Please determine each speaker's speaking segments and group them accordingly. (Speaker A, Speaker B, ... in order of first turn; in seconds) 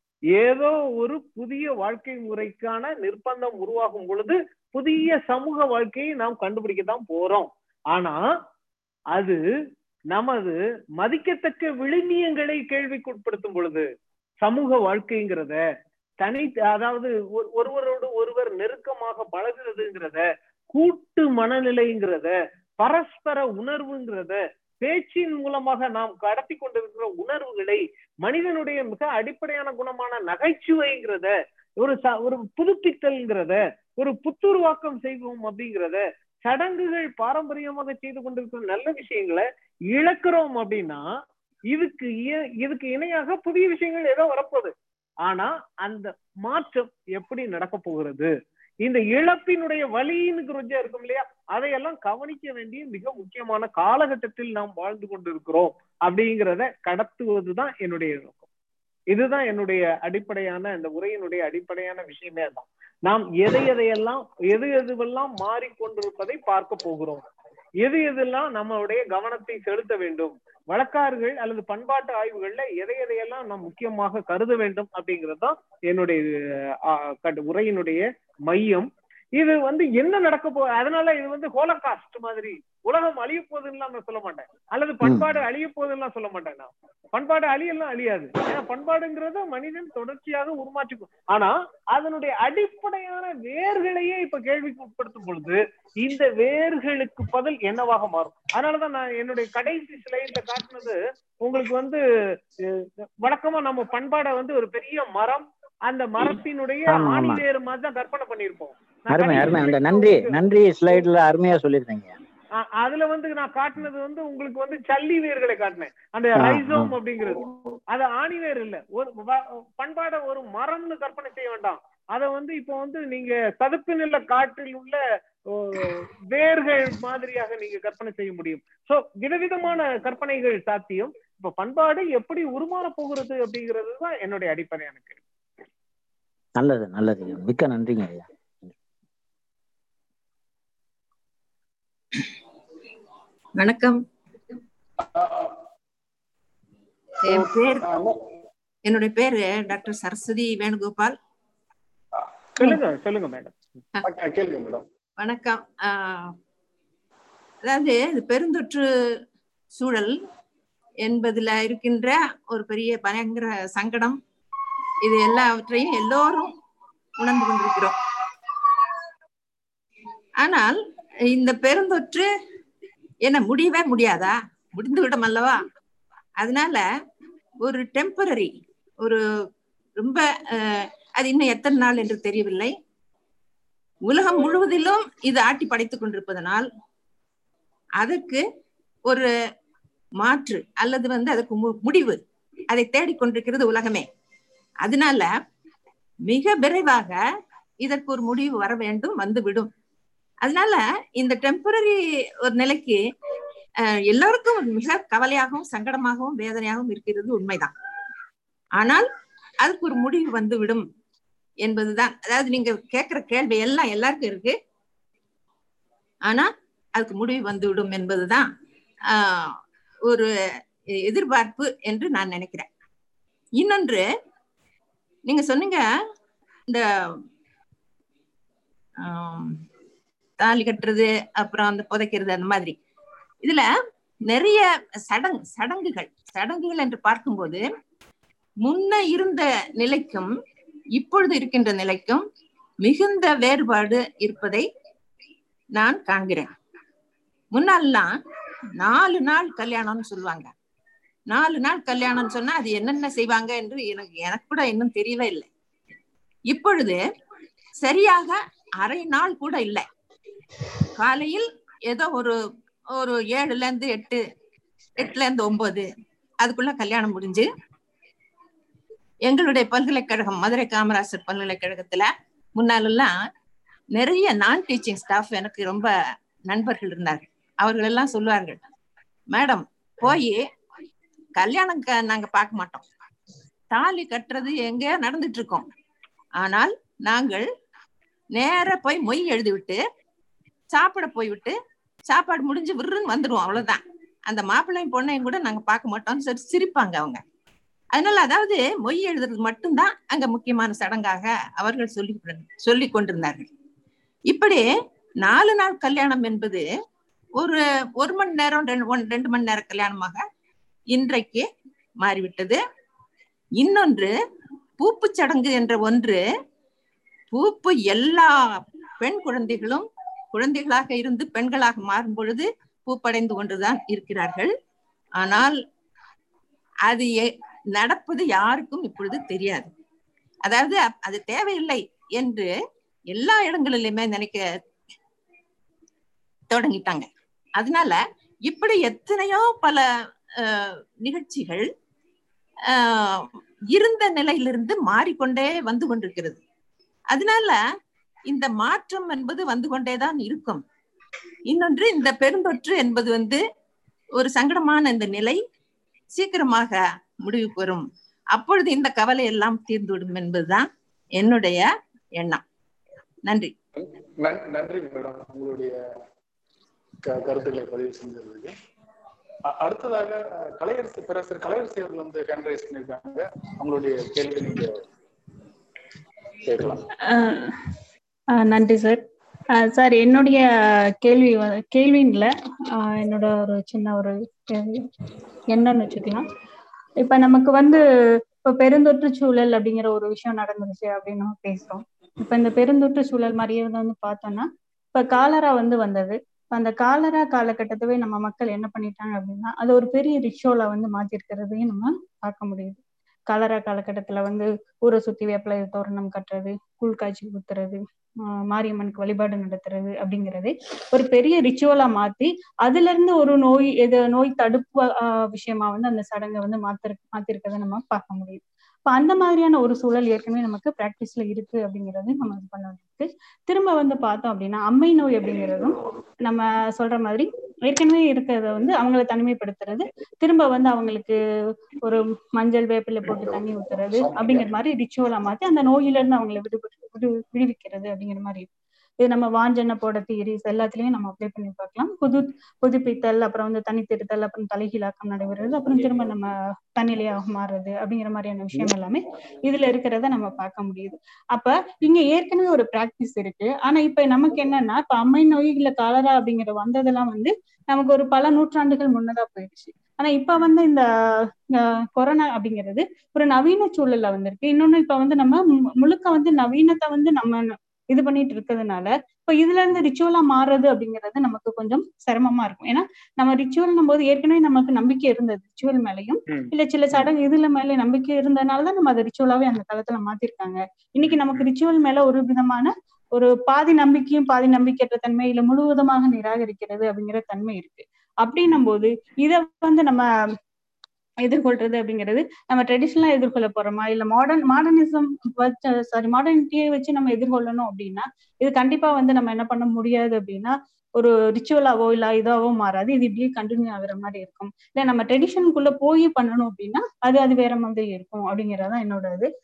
Speaker A: 0.3-8.2, 9.1-9.4, 10.1-13.8, 14.4-15.6, 16.2-41.0, 41.7-44.7, 45.2-48.3, 48.8-58.4, 59.1-67.2, 67.8-76.2, 76.9-102.0, 102.7-111.0, 112.6-125.0, 125.5-135.2, 152.6-153.5, 476.3-477.1, 481.1-481.4
Speaker B: 106.9-107.4, 109.1-112.2, 116.3-116.9, 136.6-138.2
Speaker C: 143.6-144.0, 147.2-147.8, 148.9-151.2, 155.2-156.3, 157.6-158.8, 159.8-160.2, 161.0-164.2, 165.0-166.5, 167.2-168.0, 170.4-172.3, 173.2-175.6, 176.4-176.8, 177.6-179.2, 180.0-182.7, 184.1-186.7, 188.0-188.4, 190.2-192.2, 192.7-194.1, 194.8-195.3, 196.3-197.2, 197.8-199.7, 200.4-203.0, 203.8-207.7, 208.8-209.1, 209.6-210.8, 211.6-214.5, 216.3-218.5, 219.1-220.3, 221.0-222.7, 223.6-224.0, 225.3-225.8, 226.7-227.2, 229.0-229.6, 230.4-232.8, 234.3-237.6, 238.6-240.3, 240.9-242.2, 242.8-244.7, 245.8-246.5, 247.5-248.1, 248.8-250.5, 251.3-255.5, 256.5-257.0, 257.8-259.8, 260.9-262.3, 262.9-264.2, 265.0-265.9, 266.4-267.5, 269.2-273.1, 273.9-275.9, 276.5-278.6, 279.3-280.4, 281.4-282.9, 283.7-285.7, 286.4-287.5, 288.4-289.8, 290.7-291.5, 292.1-297.2, 297.9-303.5, 304.3-304.6, 305.2-306.6, 307.4-310.2, 310.9-311.4, 312.0-312.6, 313.6-314.1, 314.8-316.2, 317.3-324.5, 325.2-325.6, 326.9-329.7, 330.4-332.5, 333.1-334.4, 336.5-337.1, 337.6-339.8, 340.4-341.7, 342.6-346.4, 347.1-347.6, 348.3-350.6, 351.5-353.4, 354.1-355.4, 356.1-362.4, 363.3-363.5
Speaker D: 145.0-145.5, 147.2-148.2, 154.0-154.8, 363.8-365.7, 367.0-368.5, 369.5-374.8, 376.4-376.8, 425.4-426.0, 433.0-434.5
Speaker E: 377.0-377.5, 378.3-379.0, 379.5-380.5, 381.0-384.9, 385.5-386.3, 387.0-387.8, 388.4-431.2, 431.8-438.5, 439.0-460.9, 461.5-490.1, 491.2-509.3